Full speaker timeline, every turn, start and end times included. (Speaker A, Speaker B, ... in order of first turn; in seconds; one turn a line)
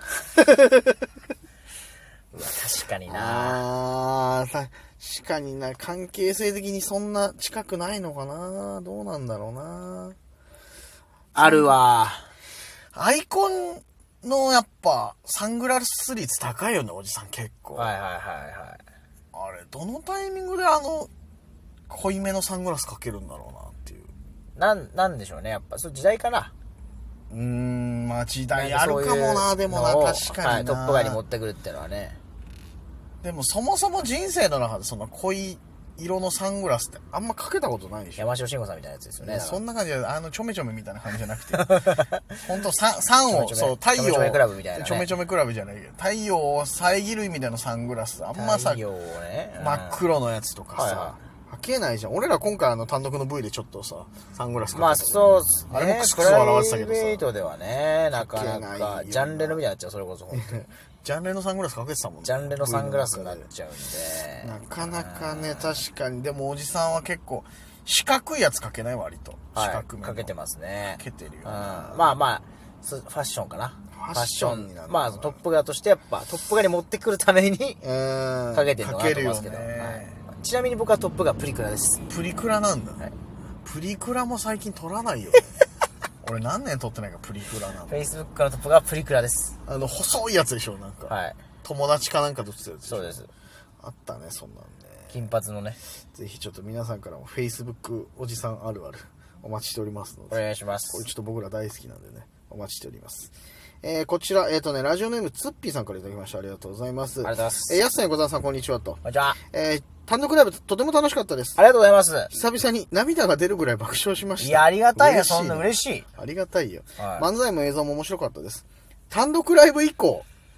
Speaker A: 2.3-3.6
Speaker B: 3.1-10.2
Speaker A: 11.3-12.3
Speaker B: 11.4-11.7
Speaker B: 12.9-17.9
Speaker A: 17.8-18.8
Speaker B: 19.3-21.1
Speaker B: 21.9-24.1
Speaker A: 24.6-26.5
Speaker B: 27.3-31.2
Speaker A: 28.5-32.2
Speaker B: 33.2-38.3
Speaker A: 38.2-39.6
Speaker B: 39.2-48.8
Speaker A: 41.6-42.2
Speaker A: 43.3-45.1
Speaker A: 48.3-50.0
Speaker B: 49.6-57.3
Speaker A: 50.8-51.2
Speaker A: 54.7-60.7
Speaker B: 58.1-59.6
Speaker B: 60.3-63.5
Speaker A: 62.2-65.8
Speaker B: 64.4-70.3
Speaker A: 69.5-77.8
Speaker B: 71.0-72.2
Speaker B: 73.9-75.4
Speaker B: 77.8-80.2
Speaker A: 78.5-82.1
Speaker B: 82.1-83.0
Speaker B: 83.6-85.6
Speaker B: 86.2-88.0
Speaker A: 87.9-89.5
Speaker B: 89.7-93.2
Speaker A: 91.1-91.4
Speaker A: 92.8-93.3
Speaker B: 93.8-95.3
Speaker A: 95.1-95.8
Speaker B: 96.1-103.3
Speaker A: 100.3-101.0
Speaker B: 103.8-109.0
Speaker A: 107.2-107.8
Speaker A: 109.0-109.4
Speaker B: 109.5-111.6
Speaker A: 111.6-112.3
Speaker B: 112.3-120.3
Speaker A: 114.4-116.1
Speaker A: 117.0-117.3